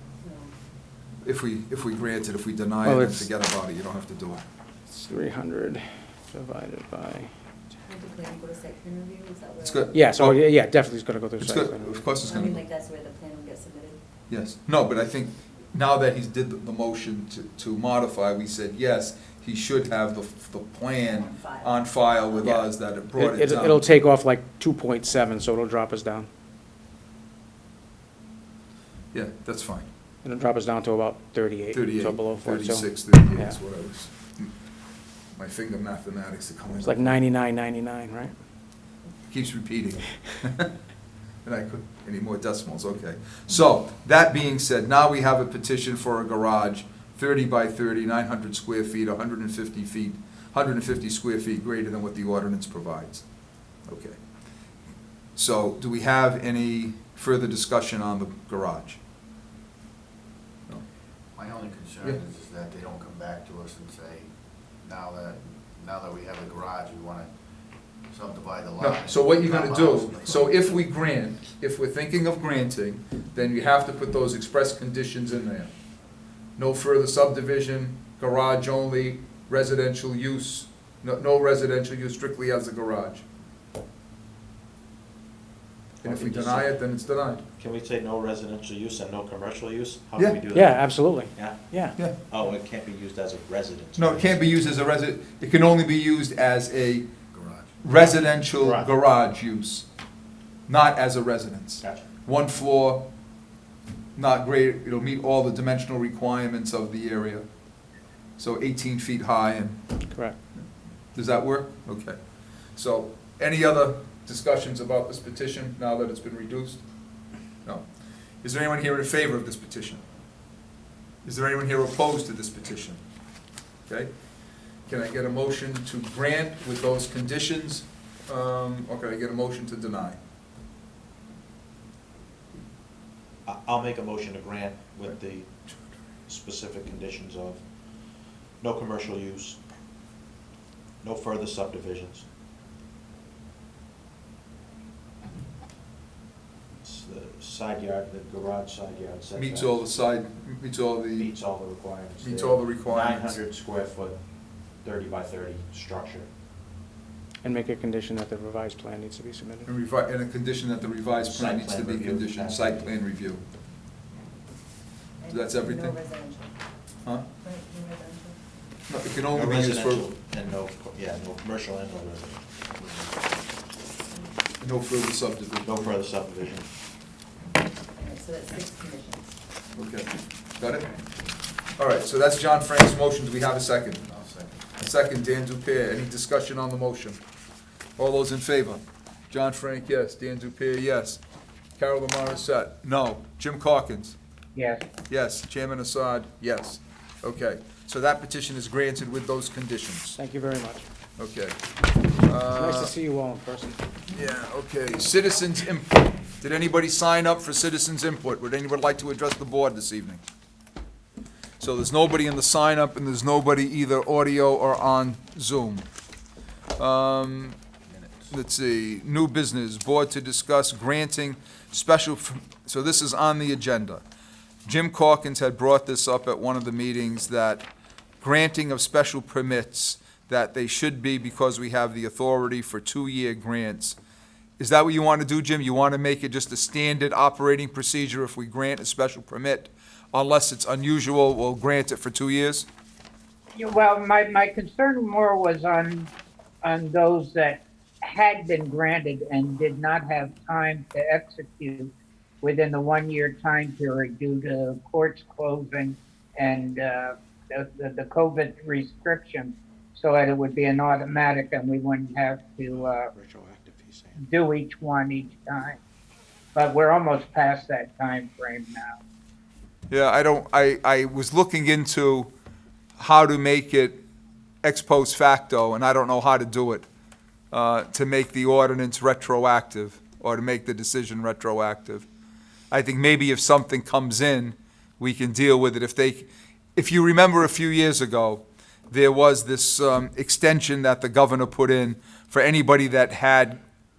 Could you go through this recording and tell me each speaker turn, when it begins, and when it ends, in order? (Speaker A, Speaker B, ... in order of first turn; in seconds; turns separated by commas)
Speaker A: 0.2-0.5, Speaker B: 1.2-4.4, Speaker C: 2.8-3.2, Speaker C: 4.9-7.3, Speaker A: 7.8-9.9, Speaker B: 9.6-10.4, Speaker C: 9.9-12.2, Speaker B: 11.4-12.6, Speaker A: 12.2-14.0, Speaker B: 14.3-24.0, Speaker A: 21.1-22.4, Speaker C: 22.4-26.3, Speaker B: 29.1-29.9, Speaker C: 30.2-33.6, Speaker B: 31.7-34.5, Speaker B: 35.3-37.2, Speaker C: 36.8-38.3, Speaker B: 39.3-40.7, Speaker B: 41.4-53.2, Speaker B: 53.9-54.2, Speaker B: 55.4-59.0, Speaker D: 61.3-64.3, Speaker D: 64.8-67.3, Speaker D: 68.1-70.5, Speaker B: 68.8-75.7, Speaker B: 76.6-83.2, Speaker E: 86.0-86.8, Speaker B: 86.0-87.4, Speaker E: 87.6-94.5, Speaker C: 90.5-92.0, Speaker B: 94.0-97.1, Speaker D: 97.3-97.7, Speaker B: 97.8-99.8, Speaker E: 98.5-98.9, Speaker B: 100.7-103.1, Speaker E: 101.8-102.1, Speaker B: 104.2-107.4, Speaker B: 108.4-109.8, Speaker B: 111.1-112.2, Speaker B: 112.8-116.8, Speaker B: 118.4-120.0, Speaker B: 121.2-123.0, Speaker B: 124.9-130.2, Speaker E: 133.4-135.7, Speaker E: 136.2-139.6, Speaker E: 141.0-142.2, Speaker E: 146.8-149.8, Speaker B: 149.4-151.3, Speaker E: 151.2-154.2, Speaker B: 152.2-153.4, Speaker E: 154.7-156.3, Speaker C: 157.4-159.7, Speaker B: 159.7-163.4, Speaker E: 161.2-163.0, Speaker A: 165.2-166.5, Speaker B: 165.3-166.0, Speaker A: 167.4-168.4, Speaker B: 168.9-170.1, Speaker E: 169.3-173.4, Speaker B: 174.6-175.9, Speaker E: 175.6-176.7, Speaker A: 177.9-179.3, Speaker B: 179.7-181.0, Speaker B: 181.8-184.1, Speaker B: 184.8-187.2, Speaker B: 188.0-191.2, Speaker B: 191.8-194.2, Speaker F: 194.5-194.8, Speaker B: 195.1-200.2, Speaker C: 200.2-200.9, Speaker B: 201.2-201.6, Speaker B: 202.2-202.9, Speaker C: 202.5-203.8, Speaker B: 204.1-210.2, Speaker B: 211.6-215.9, Speaker B: 216.8-217.6, Speaker B: 218.3-224.0, Speaker B: 224.7-227.7, Speaker B: 228.2-234.0, Speaker B: 234.6-242.7, Speaker F: 243.5-246.1, Speaker F: 246.6-251.9, Speaker F: 252.4-263.1, Speaker E: 262.7-264.1, Speaker F: 264.1-265.8, Speaker F: 266.5-268.9, Speaker B: 269.9-272.3, Speaker B: 273.0-274.0, Speaker B: 274.6-276.9, Speaker B: 277.5-282.1, Speaker B: 282.7-293.6